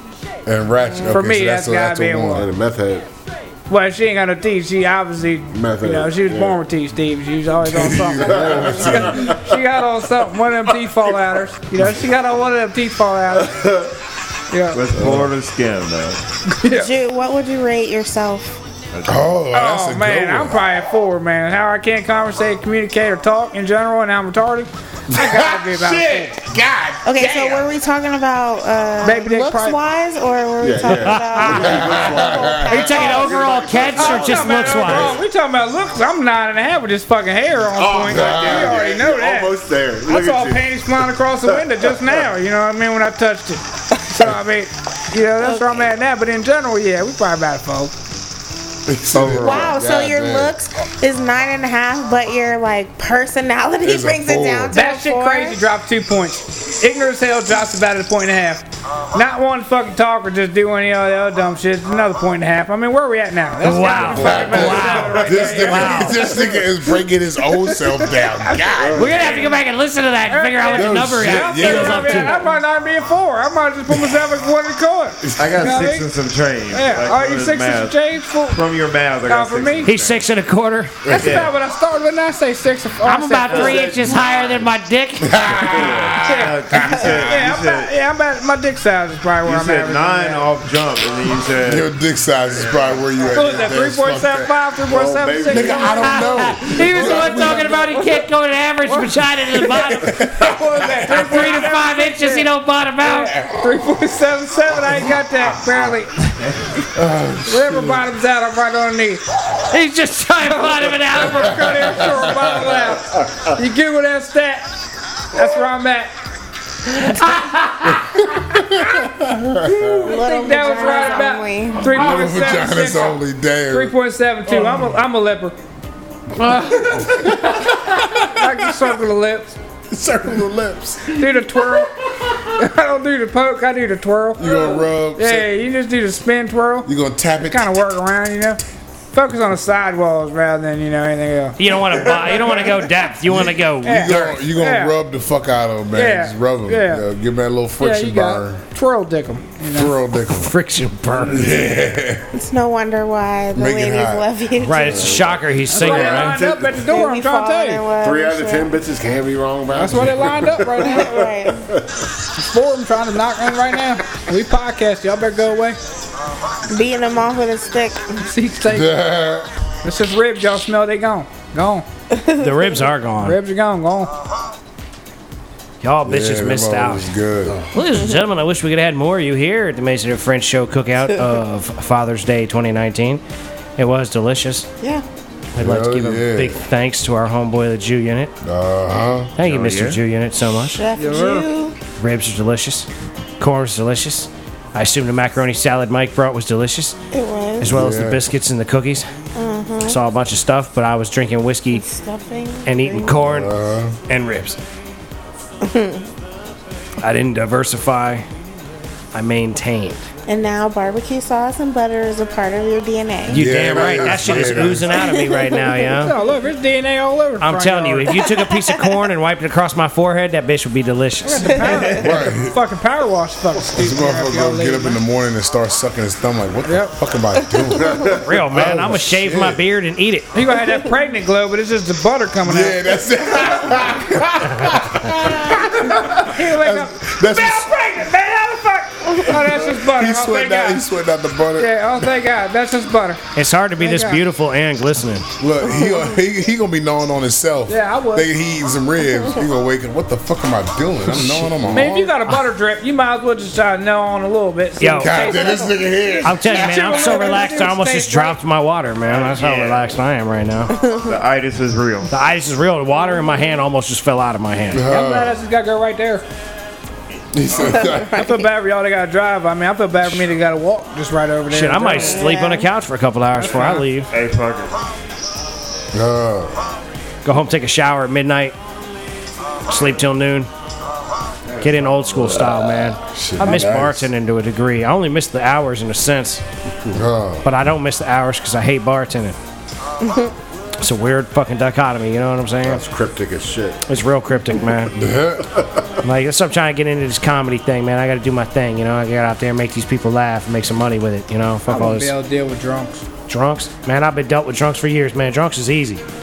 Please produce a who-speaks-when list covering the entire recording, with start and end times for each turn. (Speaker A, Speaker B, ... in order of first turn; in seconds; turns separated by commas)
Speaker A: 0.5-2.5, Speaker B: 1.1-2.5, Speaker C: 2.3-3.1, Speaker B: 3.7-13.9, Speaker C: 5.5-6.6, Speaker A: 7.6-9.4, Speaker C: 9.2-9.6, Speaker B: 14.5-14.9, Speaker D: 14.7-16.2, Speaker C: 15.0-15.3, Speaker B: 16.5-16.9, Speaker E: 16.6-18.6, Speaker D: 18.9-19.3, Speaker A: 19.1-20.6, Speaker B: 19.5-26.3, Speaker A: 25.1-27.7, Speaker E: 27.1-33.4, Speaker B: 29.0-29.8, Speaker C: 30.6-35.1, Speaker F: 30.8-31.8, Speaker A: 31.4-33.0, Speaker F: 32.6-35.2, Speaker B: 34.0-39.5, Speaker C: 37.7-42.1, Speaker A: 38.1-38.8, Speaker B: 40.1-47.9, Speaker A: 48.9-50.5, Speaker C: 49.2-49.5, Speaker E: 49.3-55.6, Speaker A: 53.8-54.8, Speaker B: 54.7-66.4, Speaker F: 63.6-66.3, Speaker A: 63.9-69.3, Speaker B: 67.6-69.5, Speaker C: 68.8-69.3, Speaker F: 69.0-72.5, Speaker B: 70.3-76.1, Speaker A: 70.7-72.4, Speaker D: 75.3-78.0, Speaker B: 76.7-78.6, Speaker D: 78.5-80.2, Speaker B: 79.3-79.9, Speaker F: 79.9-81.0, Speaker A: 81.0-81.4, Speaker B: 81.1-84.0, Speaker D: 81.2-81.5, Speaker F: 83.0-85.5, Speaker D: 83.5-84.7, Speaker A: 85.2-87.3, Speaker D: 85.6-87.9, Speaker B: 86.2-90.5, Speaker D: 89.4-91.9, Speaker A: 91.6-94.5, Speaker B: 93.3-97.9, Speaker C: 94.9-96.1, Speaker A: 95.5-97.9, Speaker F: 95.8-100.2, Speaker B: 98.8-102.5, Speaker A: 99.9-101.3, Speaker F: 101.1-103.3, Speaker B: 103.0-106.3, Speaker A: 103.4-103.7, Speaker A: 107.0-108.0, Speaker B: 107.5-109.2, Speaker F: 109.7-112.0, Speaker B: 110.7-114.7, Speaker A: 112.1-112.7, Speaker B: 115.3-116.1, Speaker F: 116.9-118.1, Speaker A: 117.9-120.2, Speaker B: 119.6-123.2, Speaker E: 120.0-122.0, Speaker A: 121.8-123.9, Speaker B: 123.7-125.6, Speaker B: 126.4-129.6, Speaker A: 126.5-128.9, Speaker A: 129.9-131.2, Speaker B: 131.1-136.9, Speaker A: 134.4-135.5, Speaker A: 136.9-137.7, Speaker B: 137.4-138.6, Speaker B: 139.1-142.7, Speaker F: 141.6-144.4, Speaker A: 143.3-148.7, Speaker B: 143.8-144.9, Speaker B: 145.9-147.0, Speaker B: 147.8-150.0, Speaker A: 149.7-150.5, Speaker F: 150.2-151.6, Speaker A: 151.3-152.3, Speaker E: 152.3-155.2, Speaker A: 153.5-154.3, Speaker F: 154.6-156.4, Speaker C: 154.9-156.9, Speaker B: 155.7-157.9, Speaker E: 156.8-158.8, Speaker C: 158.0-161.8, Speaker B: 159.8-161.1, Speaker E: 160.8-161.7, Speaker B: 162.4-165.8, Speaker E: 166.7-168.2, Speaker B: 168.2-169.0, Speaker A: 168.7-169.5, Speaker B: 169.8-171.8, Speaker E: 172.1-172.8, Speaker F: 172.4-173.4, Speaker B: 173.2-174.1, Speaker F: 175.8-177.1, Speaker A: 176.1-177.6, Speaker F: 177.7-183.2, Speaker F: 183.8-184.7, Speaker F: 185.6-188.3, Speaker A: 185.6-186.7, Speaker A: 188.4-189.3, Speaker F: 189.4-190.8, Speaker D: 189.4-190.0, Speaker E: 190.8-191.8, Speaker B: 191.0-191.5, Speaker F: 192.0-192.9, Speaker F: 193.4-197.0, Speaker E: 197.1-197.7, Speaker F: 197.6-199.1, Speaker A: 197.7-198.2, Speaker E: 199.3-200.0, Speaker F: 199.8-201.8, Speaker E: 201.7-203.2, Speaker F: 202.7-203.5, Speaker A: 203.1-204.0, Speaker F: 204.1-204.6, Speaker E: 205.6-206.1, Speaker F: 207.0-208.3, Speaker F: 209.1-210.0, Speaker E: 210.3-214.1, Speaker F: 213.3-216.2, Speaker A: 213.3-215.0, Speaker E: 214.9-215.7, Speaker B: 215.9-218.3, Speaker F: 217.4-221.8, Speaker E: 218.4-218.7, Speaker B: 221.2-225.0, Speaker A: 222.0-222.6, Speaker A: 223.7-229.6, Speaker B: 226.7-226.9, Speaker F: 228.1-230.3, Speaker B: 230.3-233.0, Speaker A: 232.4-237.7, Speaker B: 235.6-240.8, Speaker A: 239.3-242.1, Speaker B: 241.6-243.2, Speaker F: 243.3-245.3, Speaker B: 243.8-244.2, Speaker A: 245.4-252.2, Speaker B: 247.7-248.3, Speaker F: 251.1-252.4, Speaker B: 251.7-255.8, Speaker F: 254.8-255.3, Speaker A: 255.0-257.2, Speaker F: 256.2-260.8, Speaker B: 256.4-258.4, Speaker D: 259.1-260.0, Speaker E: 260.7-261.1, Speaker D: 261.0-262.1, Speaker F: 262.1-264.9, Speaker E: 263.0-263.4, Speaker A: 264.7-265.4, Speaker B: 264.9-266.2, Speaker A: 267.3-268.2, Speaker E: 267.7-268.3, Speaker B: 268.1-272.4, Speaker F: 271.5-274.1, Speaker E: 272.0-272.7, Speaker B: 273.4-273.9, Speaker D: 274.1-274.8, Speaker A: 275.9-276.6, Speaker F: 277.2-278.6, Speaker F: 279.7-280.5, Speaker D: 281.5-282.4, Speaker F: 281.6-286.4, Speaker A: 283.0-284.1, Speaker B: 283.5-283.7, Speaker A: 286.9-287.5, Speaker F: 287.4-289.4, Speaker E: 290.1-290.3, Speaker F: 290.8-292.8, Speaker C: 292.6-293.8, Speaker F: 293.9-294.9, Speaker A: 294.9-295.6, Speaker F: 296.0-302.1, Speaker B: 301.7-303.1, Speaker F: 303.3-306.0